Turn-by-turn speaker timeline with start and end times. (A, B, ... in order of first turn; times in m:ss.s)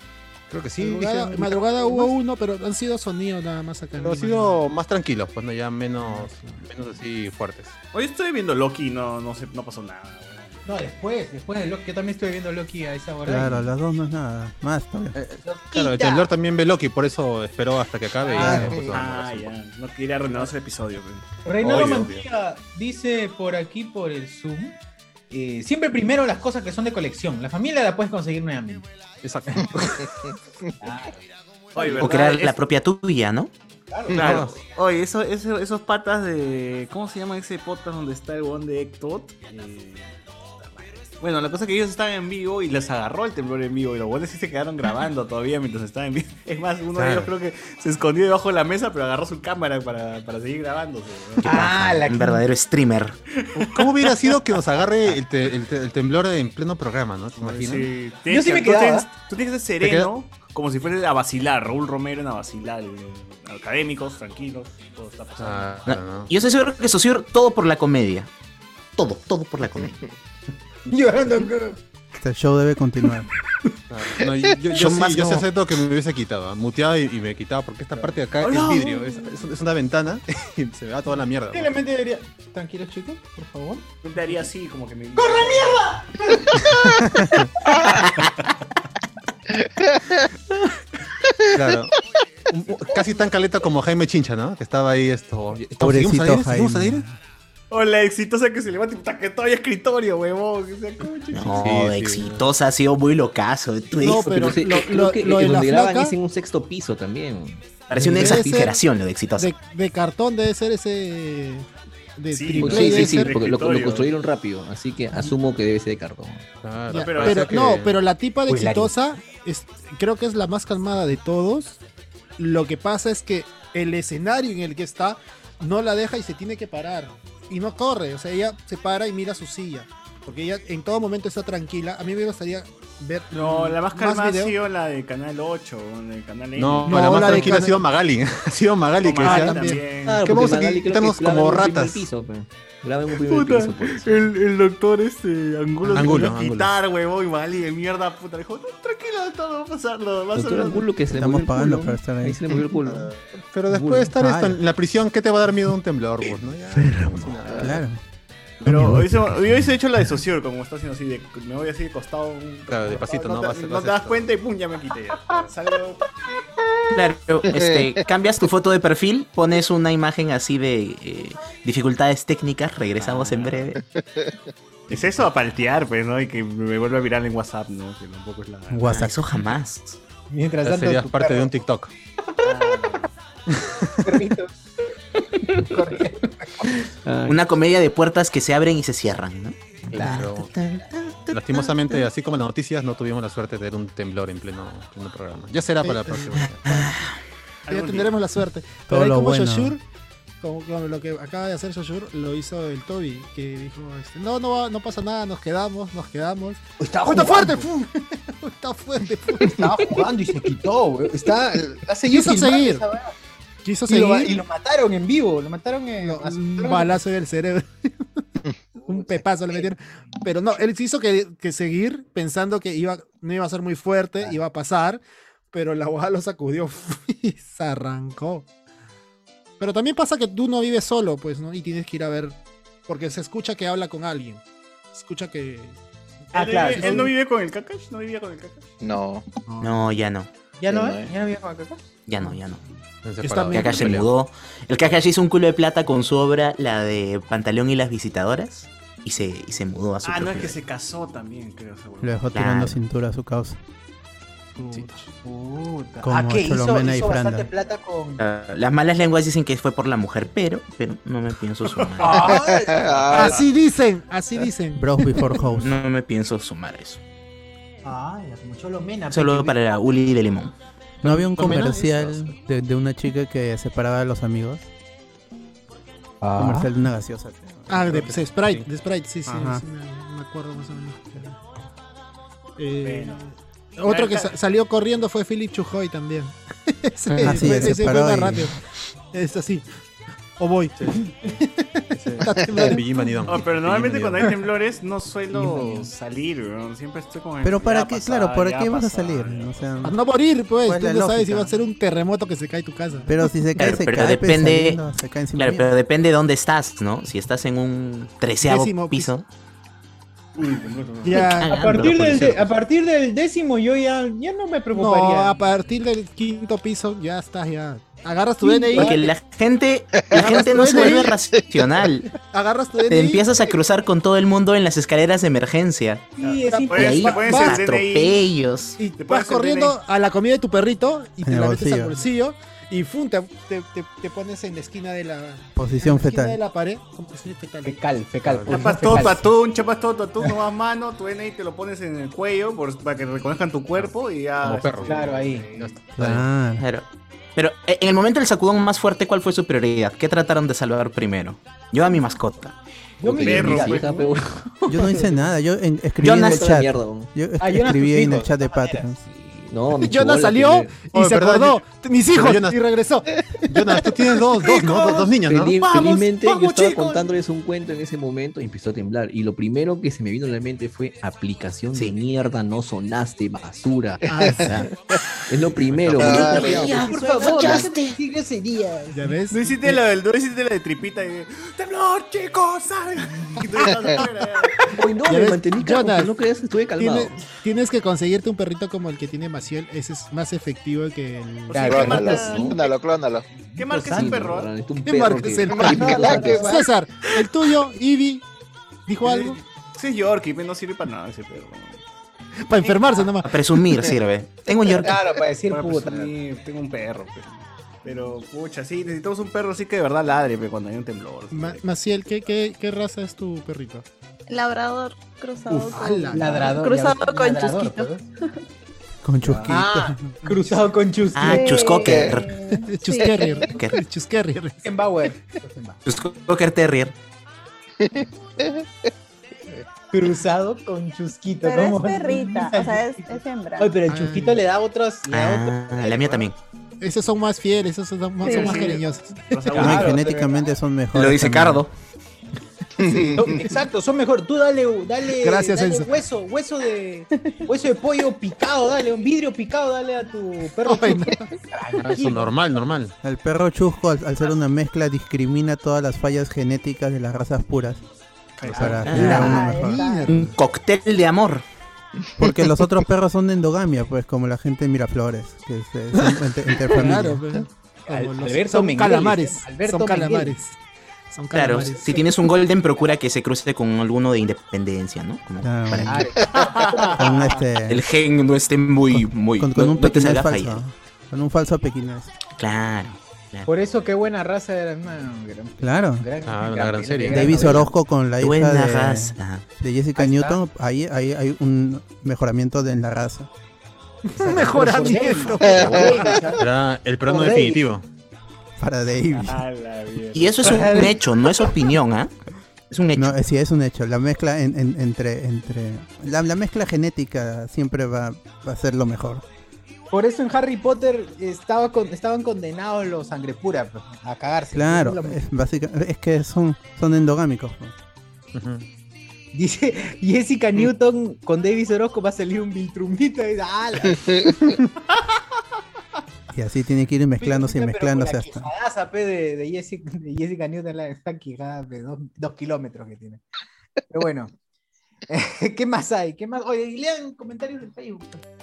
0:00.5-0:01.6 A
0:00.8-0:04.6 B
0:04.0-0:07.8 A
0:07.9-0:10.6 C
0:10.7-0:13.6 D
0:13.3-0:15.2 E
0:15.2-0:19.5 A
0:15.4-0:16.3 D
0:18.2-0:18.9 D
0:18.4-0:18.8 E
0:18.4-0:22.0 C
0:21.4-0:24.8 D
0:21.6-0:22.2 A
0:25.3-0:28.9 D
0:29.2-0:30.1 A
0:30.8-0:31.2 D
0:31.8-0:32.6 C
0:31.8-0:32.1 D
0:32.0-0:33.5 F
0:33.9-0:34.5 D
0:34.1-0:51.8 C
0:34.2-0:34.6 A
0:47.0-0:47.3 A
0:51.4-0:52.4 D
0:51.4-0:53.2 F
0:53.6-0:57.9 A
0:53.6-0:54.3 C
0:57.4-1:06.0 C
0:58.3-0:59.1 D
0:59.8-1:00.1 A
1:05.4-1:06.3 A
1:05.9-1:08.3 F
1:09.0-1:10.0 F
1:10.9-1:11.5 A
1:10.9-1:11.8 D
1:12.2-1:13.3 E
1:13.9-1:21.8 A
1:14.8-1:15.4 F
1:18.4-1:19.3 C
1:21.5-1:23.9 D
1:24.0-1:26.0 C
1:25.2-1:26.9 D
1:26.7-1:27.5 A
1:29.6-1:30.2 G
1:31.5-1:31.9 A
1:32.5-1:37.0 A
1:35.8-1:37.0 E
1:37.7-1:41.7 C
1:41.3-1:44.5 F
1:41.6-1:42.5 A
1:44.0-1:46.2 B
1:44.0-1:48.8 H
1:47.9-1:49.5 F
1:48.0-1:48.8 B
1:49.4-1:53.4 B
1:52.3-1:54.1 C
1:52.6-1:56.5 H
1:56.6-1:58.0 A
1:56.9-2:01.8 B
1:56.9-1:57.6 C
1:58.5-1:58.9 D
2:02.4-2:14.6 B
2:13.3-2:17.6 C
2:16.6-2:22.1 A
2:16.9-2:17.8 B
2:19.0-2:20.3 C
2:19.2-2:19.8 B
2:20.0-2:24.3 H
2:23.1-2:30.9 C
2:25.8-2:26.8 A
2:30.3-2:33.1 H
2:31.1-2:32.6 E
2:32.9-2:37.8 A
2:33.7-2:34.1 H
2:34.1-2:34.6 E
2:36.9-2:37.3 H
2:37.6-2:38.0 E
2:38.6-2:46.1 C
2:42.7-2:44.3 A
2:46.9-2:53.8 F
2:53.0-2:53.7 C
2:54.9-2:58.9 C
2:58.7-2:59.3 E
2:58.8-3:00.0 F
3:00.3-3:01.5 D
3:00.6-3:01.9 A
3:02.4-3:03.1 C
3:03.5-3:04.2 A
3:04.0-3:04.5 D
3:05.5-3:06.8 D
3:07.0-3:07.4 H
3:07.3-3:11.7 F
3:09.9-3:10.3 D
3:10.0-3:10.5 A
3:11.3-3:16.8 A
3:15.8-3:16.8 B
3:16.4-3:17.2 F
3:17.7-3:18.2 C
3:17.7-3:19.8 B
3:18.9-3:19.8 E
3:20.4-3:29.9 B
3:26.8-3:27.7 D
3:29.4-3:33.1 D
3:32.1-3:32.8 B
3:33.6-3:34.4 B
3:33.9-3:37.0 D
3:36.0-3:38.2 B
3:38.8-3:48.5 B
3:49.6-3:55.8 B
3:56.3-3:57.1 D
3:56.3-3:58.7 C
3:56.8-3:57.1 B
3:58.8-3:59.2 G
3:59.5-4:00.0 B
3:59.6-4:00.3 F
4:00.6-4:01.8 D
4:00.7-4:01.1 G
4:02.1-4:02.6 F
4:03.0-4:04.1 A
4:03.5-4:10.6 F
4:10.0-4:12.3 C
4:12.0-4:13.6 E
4:12.3-4:12.8 F
4:14.6-4:14.9 B
4:15.2-4:18.2 D
4:16.0-4:17.5 E
4:18.2-4:22.2 F
4:22.0-4:22.8 D
4:22.1-4:23.4 G
4:22.8-4:23.4 C
4:23.1-4:25.4 B
4:24.8-4:25.7 E
4:25.6-4:27.0 F
4:27.8-4:29.6 D
4:29.1-4:30.5 F
4:31.0-4:34.7 E
4:31.0-4:32.3 B
4:31.9-4:32.3 A
4:36.2-4:36.7 D
4:36.4-4:38.2 E
4:37.7-4:41.4 B
4:39.3-4:39.6 E
4:42.6-4:48.6 B
4:42.8-4:43.2 C
4:43.9-4:44.3 C
4:47.1-4:48.5 E
4:49.1-4:49.7 B
4:50.4-4:53.2 B
4:50.8-4:51.4 A
4:52.0-4:54.4 A
4:53.3-4:59.7 C
4:57.4-5:00.0 E
4:59.8-5:03.2 B
5:00.6-5:01.5 E
5:03.1-5:05.7 E
5:03.6-5:04.8 F
5:05.4-5:09.2 F
5:08.4-5:09.2 B
5:10.4-5:11.3 C
5:11.0-5:11.8 B
5:11.4-5:12.5 F
5:11.4-5:15.4 D
5:14.7-5:19.0 B
5:18.4-5:19.1 D
5:18.7-5:22.1 F
5:19.9-5:21.6 G
5:20.1-5:21.2 B
5:22.2-5:23.3 B
5:22.9-5:26.1 F
5:26.2-5:27.4 D
5:26.2-5:28.3 C
5:26.5-5:27.6 B
5:26.7-5:28.8 F
5:28.8-5:37.8 B
5:29.0-5:29.8 C
5:31.2-5:32.0 E
5:35.6-5:36.4 E
5:37.6-5:39.3 D
5:38.2-5:39.1 A
5:38.5-5:45.7 C
5:44.4-5:46.3 A
5:44.8-5:45.5 D
5:46.0-5:46.6 E
5:46.6-5:52.6 F
5:53.0-5:53.9 D
5:53.0-5:55.2 H
5:53.1-5:54.1 C
5:54.7-5:59.0 E
5:56.0-5:57.1 H
5:56.0-5:56.5 F
5:57.4-5:58.9 D
5:59.2-6:00.9 H
5:59.7-6:03.9 B
6:00.9-6:02.6 A
6:03.5-6:05.7 A
6:04.6-6:05.0 D
6:05.2-6:14.7 H
6:05.7-6:07.1 D
6:14.1-6:14.6 B
6:14.1-6:14.4 G
6:15.3-6:17.8 H
6:15.7-6:16.0 A
6:16.0-6:16.7 G
6:16.1-6:19.1 D
6:16.4-6:18.0 F
6:18.9-6:19.8 B
6:19.3-6:24.7 C
6:24.7-6:27.2 H
6:25.1-6:26.2 B
6:26.8-6:32.2 B
6:31.5-6:32.6 D
6:31.5-6:32.7 C
6:31.6-6:33.3 G
6:33.6-6:34.3 D
6:33.6-6:34.5 C
6:33.9-6:36.5 H
6:34.8-6:38.2 B
6:35.5-6:36.5 G
6:35.6-6:36.6 D
6:38.9-6:39.4 B
6:39.0-6:41.8 C
6:42.4-6:43.4 B
6:43.2-6:45.0 F
6:44.8-6:46.1 D
6:45.5-6:51.6 C
6:51.3-6:53.9 B
6:54.3-6:57.9 I
6:55.5-6:56.6 B
6:56.1-6:58.0 D
6:59.0-7:00.2 E
6:59.3-7:01.8 D
7:00.3-7:00.6 B
7:01.2-7:02.3 F
7:01.2-7:03.5 I
7:01.8-7:02.1 G
7:02.5-7:04.8 B
7:03.5-7:03.8 F
7:04.6-7:05.8 D
7:05.8-7:06.9 F
7:07.8-7:08.7 G
7:09.9-7:16.2 D
7:11.4-7:13.8 I
7:13.9-7:14.4 B
7:15.1-7:16.4 F
7:16.8-7:19.7 B
7:18.2-7:18.6 I
7:18.2-7:20.0 C
7:19.6-7:20.5 D
7:19.6-7:21.7 E
7:20.9-7:21.7 F
7:22.8-7:23.4 G
7:23.1-7:32.3 D
7:25.2-7:25.9 B
7:30.6-7:31.3 B
7:31.8-7:32.9 A
7:33.0-7:37.8 E
7:38.4-7:39.1 C
7:38.5-7:39.8 E
7:38.7-7:39.4 D
7:38.9-7:39.3 F
7:38.9-7:40.3 B
7:39.0-7:40.2 I
7:40.1-7:41.4 F
7:42.2-7:47.3 E
7:46.6-7:50.6 B
7:47.9-7:50.4 D
7:51.1-7:52.1 B
7:51.3-7:56.0 F
7:55.4-7:56.1 E
7:55.8-7:57.4 D
7:57.0-7:57.8 E
7:57.7-8:00.6 F
7:59.0-8:02.2 E
8:02.3-8:03.5 F
8:03.5-8:07.7 D
8:05.6-8:06.1 E
8:06.2-8:07.6 A
8:07.1-8:13.3 E
8:08.2-8:09.5 F
8:10.0-8:10.4 D
8:14.1-8:16.4 B
8:14.2-8:16.4 D
8:14.3-8:14.6 E
8:15.4-8:16.0 G
8:16.4-8:17.8 A
8:17.0-8:17.6 D
8:18.6-8:19.4 E
8:19.2-8:20.8 C
8:20.1-8:22.1 F
8:20.4-8:21.0 D
8:22.7-8:23.2 F
8:23.0-8:29.2 E
8:29.9-8:35.2 D
8:34.5-8:37.8 E
8:38.3-8:38.7 A
8:39.3-8:44.3 D
8:46.3-8:48.5 E
8:47.2-8:53.2 D
8:53.9-8:54.3 D
8:55.1-8:58.2 D